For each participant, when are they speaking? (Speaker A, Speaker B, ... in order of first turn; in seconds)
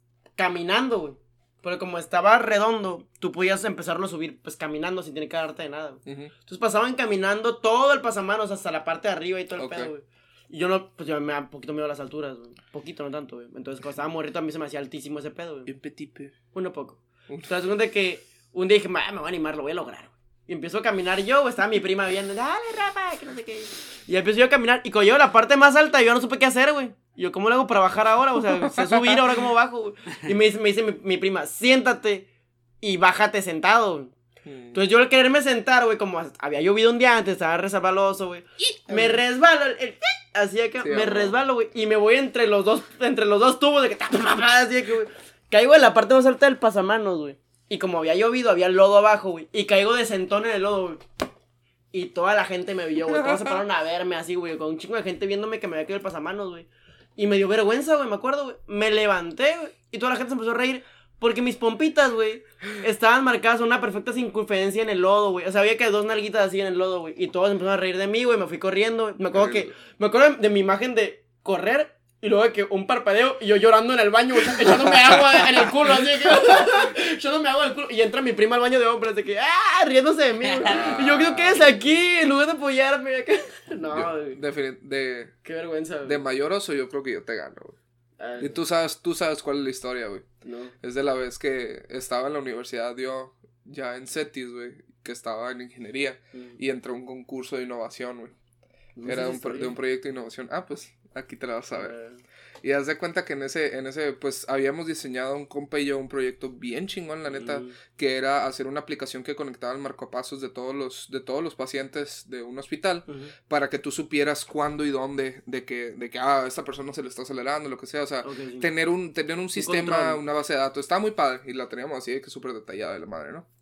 Speaker A: 0.3-15.7, 16.5-32.3, 32.8-34.1, 34.7-51.0, 51.9-84.4, 85.4-86.2, 88.2-88.5, 90.4-90.7, 99.0-99.8, 101.7-102.2, 107.2-107.8, 113.1-113.3, 118.2-118.7, 119.5-120.2
Speaker B: 6.0-6.3, 9.6-9.9, 15.7-16.3, 28.6-29.3, 34.4-34.8, 38.6-39.2, 40.8-41.4, 53.0-53.6, 69.3-69.7, 74.7-75.5, 80.6-81.6, 83.9-85.3, 86.0-87.8, 88.4-90.3, 90.8-98.3, 99.0-101.9, 102.6-123.5